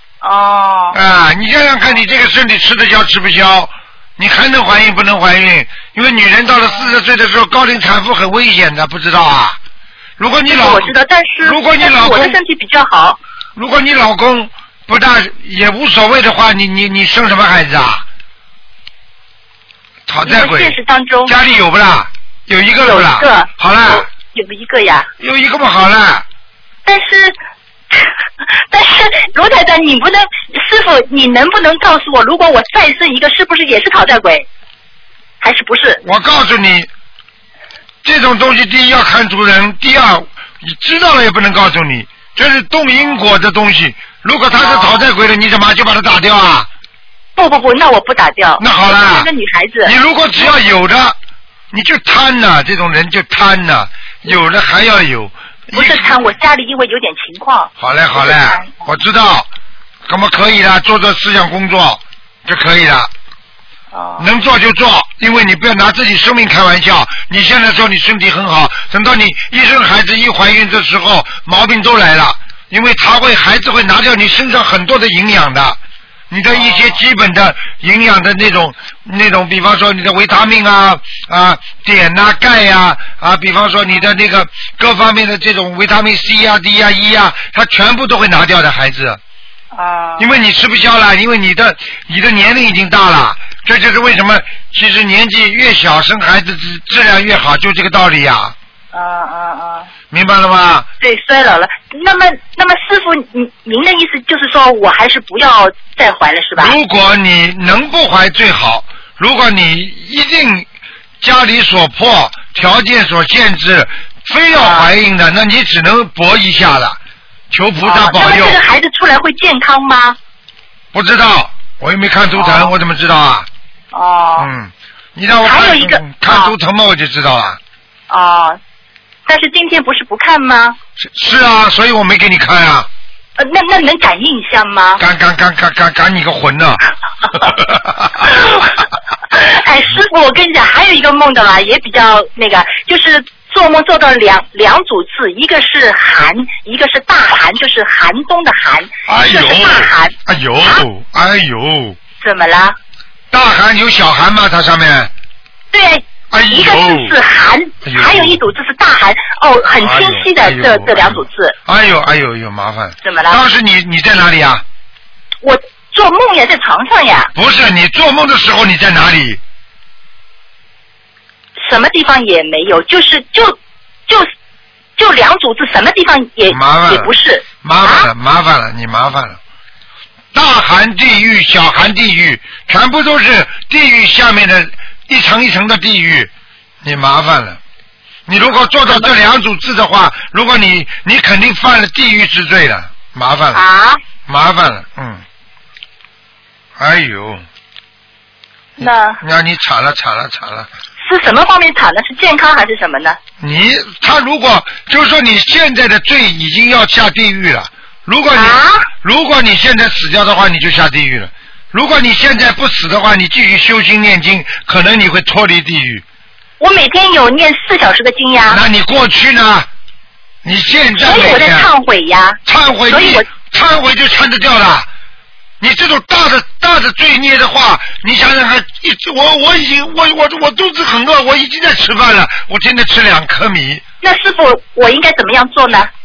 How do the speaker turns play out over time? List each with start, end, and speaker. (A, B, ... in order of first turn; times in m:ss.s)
0:00.2-0:01.0 A
0:00.9-0:09.6 B
0:10.2-0:12.4 B
0:10.5-0:13.2 A
0:13.6-0:18.0 B
0:20.1-0:24.1 B
0:20.2-0:21.3 A
0:22.8-0:25.1 A
0:25.2-0:26.2 B
0:26.8-0:27.3 A
0:28.7-0:34.4 A
0:35.4-0:36.0 A
0:36.0-0:36.9 B
0:38.0-0:46.7 B
0:44.5-0:45.1 A
0:47.4-0:50.5 A
0:48.6-0:49.3 B
0:49.8-0:51.2 B
0:51.7-0:56.1 B
0:55.7-0:58.8 A
0:57.8-0:59.5 B
1:00.0-1:03.1 B
1:03.9-1:04.3 A
1:04.2-1:15.8 B
1:16.3-1:29.2 B
1:16.5-1:17.0 A
1:29.7-1:30.3 A
1:30.2-1:38.5 B
1:38.9-1:39.9 A
1:40.1-1:40.9 B
1:41.0-1:46.8 A
1:46.6-1:50.7 B
1:51.2-1:57.0 B
1:54.5-1:54.9 A
1:57.5-1:58.6 B
1:57.8-2:00.2 A
2:00.9-2:03.5 B
2:02.3-2:02.7 A
2:03.9-2:04.5 A
2:04.4-2:07.6 B
2:05.3-2:06.5 A
2:08.1-2:08.6 A
2:09.3-2:10.8 A
2:11.0-2:12.9 B
2:13.4-2:15.0 A
2:15.0-2:18.4 B
2:18.3-2:18.7 A
2:19.3-2:30.8 A
2:29.1-2:32.0 B
2:32.2-2:32.8 A
2:33.3-2:35.1 B
2:35.7-2:41.6 A
2:36.3-2:37.1 B
2:37.8-2:38.4 B
2:39.7-2:44.6 B
2:43.0-2:43.4 A
2:45.4-2:47.3 A
2:47.3-2:49.4 B
2:51.6-2:53.6 A
2:55.0-2:58.1 A
2:56.5-2:59.4 B
3:00.3-3:06.3 B
3:06.8-3:07.6 B
3:08.3-3:13.6 B
3:08.8-3:09.1 A
3:13.5-3:14.0 A
3:14.2-3:15.2 B
3:16.8-3:17.4 B
3:18.8-3:19.2 A
3:18.8-3:20.7 B
3:21.0-3:23.2 A
3:23.4-3:36.0 B
3:28.3-3:28.9 A
3:36.6-3:38.6 A
3:38.5-3:39.7 B
3:40.4-3:41.7 B
3:41.0-3:43.2 A
3:42.4-3:44.9 B
3:45.6-3:53.8 B
3:54.0-3:55.9 A